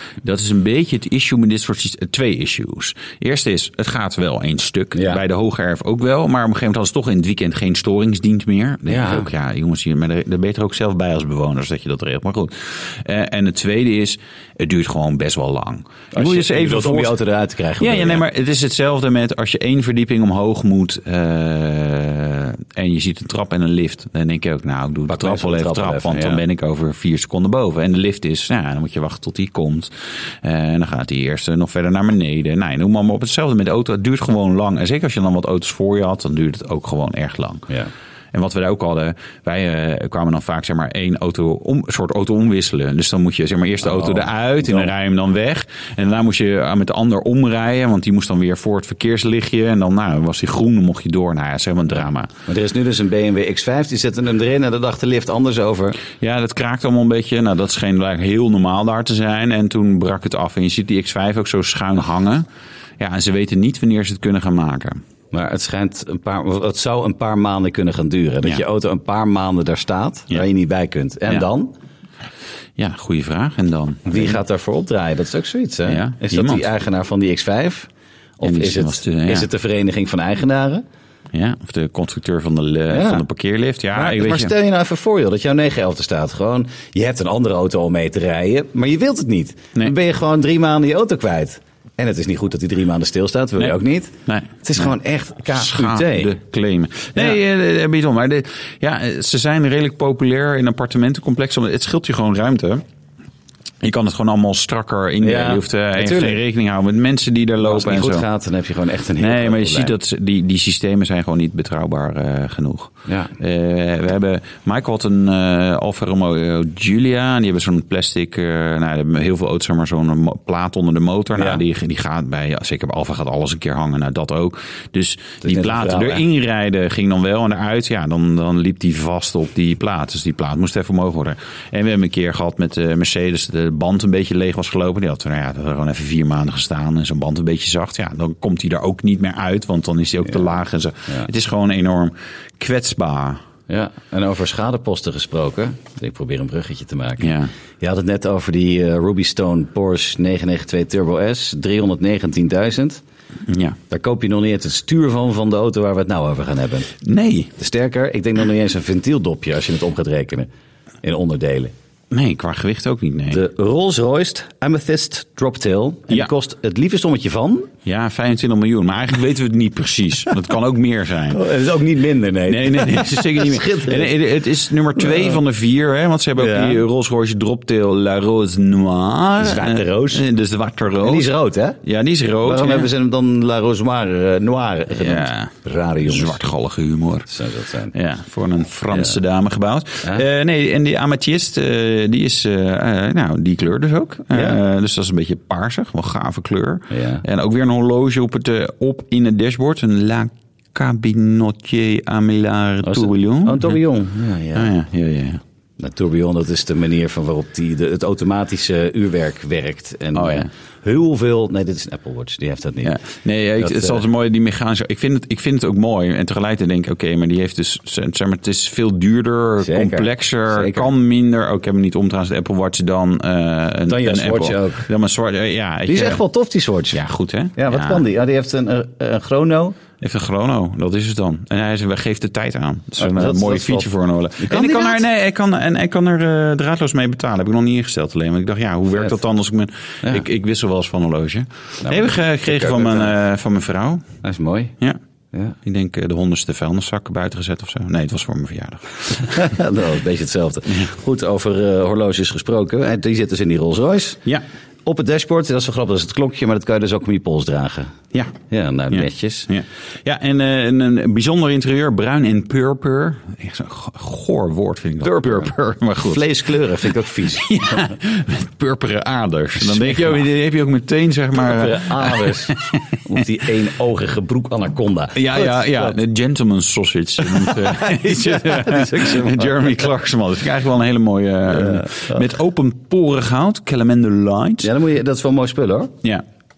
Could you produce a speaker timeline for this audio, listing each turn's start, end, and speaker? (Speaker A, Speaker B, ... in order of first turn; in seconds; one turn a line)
Speaker A: 0.2-17.2
Speaker B: 4.9-5.2
Speaker B: 8.8-9.3
Speaker B: 16.1-18.2
Speaker A: 17.8-37.7
Speaker B: 25.1-26.4
Speaker A: 38.3-52.3
Speaker B: 43.8-44.9
Speaker B: 52.5-56.0
Speaker A: 56.1-62.5
Speaker A: 63.0-65.0
Speaker B: 65.3-71.7
Speaker A: 72.8-74.4
Speaker B: 74.1-80.8
Speaker A: 75.9-76.7
Speaker A: 78.4-79.5
Speaker A: 81.3-84.5
Speaker B: 82.9-83.2
Speaker B: 83.9-96.3
Speaker A: 93.6-94.9
Speaker A: 95.5-102.8
Speaker A: 103.8-108.3
Speaker B: 105.2-106.4
Speaker B: 107.6-109.9
Speaker A: 109.2-143.4
Speaker B: 113.1-113.3
Speaker B: 121.4-121.6
Speaker B: 125.4-126.2
Speaker B: 143.7-153.0
Speaker A: 147.2-147.5
Speaker A: 153.5-153.8
Speaker B: 153.9-156.9
Speaker A: 157.0-157.5
Speaker B: 157.6-160.5
Speaker B: 161.0-161.7
Speaker A: 162.1-163.4
Speaker B: 163.3-167.7
Speaker A: 167.9-171.5
Speaker B: 171.3-174.2
Speaker A: 172.5-181.3
Speaker B: 175.0-175.4
Speaker B: 176.4-176.8
Speaker B: 179.4-180.3
Speaker B: 181.0-181.8
Speaker A: 181.8-182.9
Speaker B: 182.4-186.4
Speaker A: 184.9-187.3
Speaker B: 187.3-187.9
Speaker A: 187.9-203.8
Speaker B: 188.9-189.2
Speaker B: 194.3-194.6
Speaker B: 196.9-197.2
Speaker B: 202.8-204.7
Speaker A: 204.6-205.4
Speaker B: 205.8-213.0
Speaker A: 210.2-210.5
Speaker A: 212.8-226.2
Speaker B: 213.6-214.0
Speaker B: 219.6-220.9
Speaker B: 223.9-224.9
Speaker B: 225.9-227.0
Speaker A: 226.9-228.0
Speaker B: 227.6-229.8
Speaker A: 230.0-244.1
Speaker B: 233.0-235.0
Speaker B: 241.8-243.1
Speaker B: 244.2-244.8
Speaker A: 245.6-249.6
Speaker B: 249.2-254.3
Speaker B: 254.9-257.9
Speaker B: 258.5-259.5
Speaker A: 258.9-266.3
Speaker B: 265.1-265.5
Speaker B: 266.0-267.9
Speaker A: 267.2-273.2
Speaker B: 269.6-270.2
Speaker B: 271.4-276.0
Speaker A: 275.1-284.7
Speaker B: 277.2-279.9
Speaker B: 281.5-282.2
Speaker B: 284.6-285.9